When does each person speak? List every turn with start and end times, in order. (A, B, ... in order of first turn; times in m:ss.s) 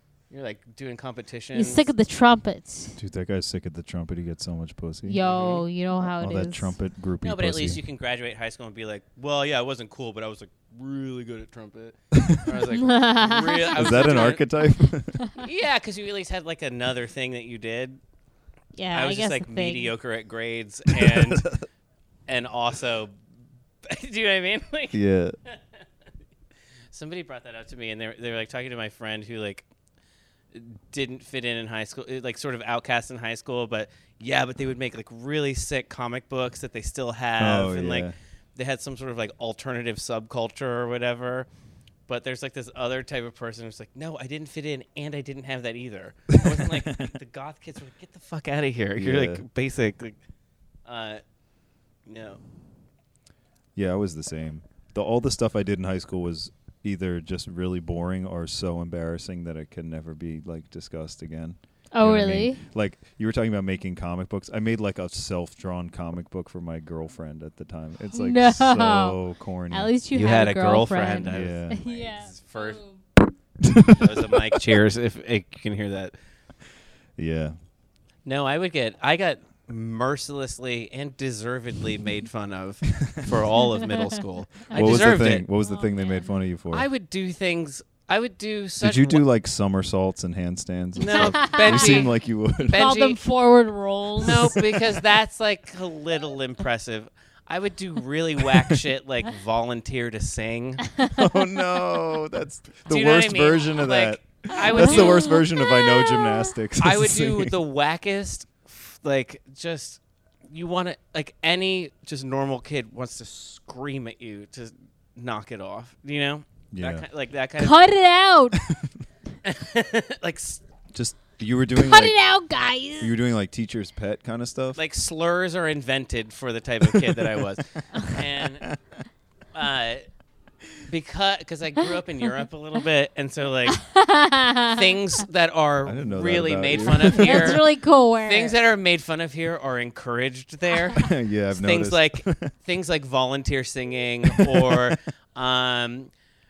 0:00.3-0:01.9 A
0:01.5-0:03.0 B
0:03.0-0:05.2 C
0:05.0-0:06.7 B
0:05.2-0:05.6 A
0:06.0-0:07.8 C
0:07.2-0:14.4 A
0:12.7-0:14.4 B
0:13.7-0:15.2 C
0:15.4-0:18.0 A
0:18.7-0:19.9 B
0:18.9-0:21.5 A
0:20.9-0:21.6 C
0:22.3-0:23.1 A
0:23.8-0:25.6 A
0:24.9-0:25.4 C
0:26.9-0:29.6 A
0:30.5-0:41.5 A
0:37.4-0:38.1 C
0:42.1-0:50.2 A
0:46.4-0:47.1 C
0:49.0-0:49.4 C
0:50.8-0:51.2 A
0:52.1-0:52.4 A
0:53.8-1:09.9 C
1:01.9-1:02.6 B
1:08.1-1:09.2 B
1:09.7-1:13.0 B
1:10.1-1:12.8 A
1:11.3-1:11.8 C
1:13.6-1:14.6 C
1:13.8-1:16.1 A
1:17.2-1:17.5 C
1:18.2-1:25.4 A
1:24.7-1:26.9 C
1:25.6-1:26.3 B
1:26.7-1:29.2 A
1:28.8-1:32.8 C
1:31.0-1:32.1 A
1:31.0-1:32.1 B
1:32.6-1:34.6 B
1:32.7-1:33.2 A
1:34.2-1:40.9 A
1:34.3-1:34.6 C
1:41.1-1:47.6 C
1:42.9-1:45.4 A
1:44.5-1:46.4 B
1:46.8-1:57.8 A
1:56.7-1:57.0 C
1:57.6-1:58.6 B
1:58.6-1:58.9 C
1:59.4-2:00.6 A
2:00.9-2:02.1 C
2:01.8-2:03.1 B
2:03.0-2:04.8 C
2:04.8-2:08.7 A
2:06.9-2:07.4 C
2:08.2-2:08.8 C
2:09.5-2:10.0 A
2:10.8-2:13.9 A
2:13.8-2:14.9 B
2:14.7-2:17.7 A
2:15.8-2:17.6 C
2:16.9-2:18.5 B
2:18.2-2:26.1 A
2:20.9-2:22.5 C
2:24.3-2:24.9 C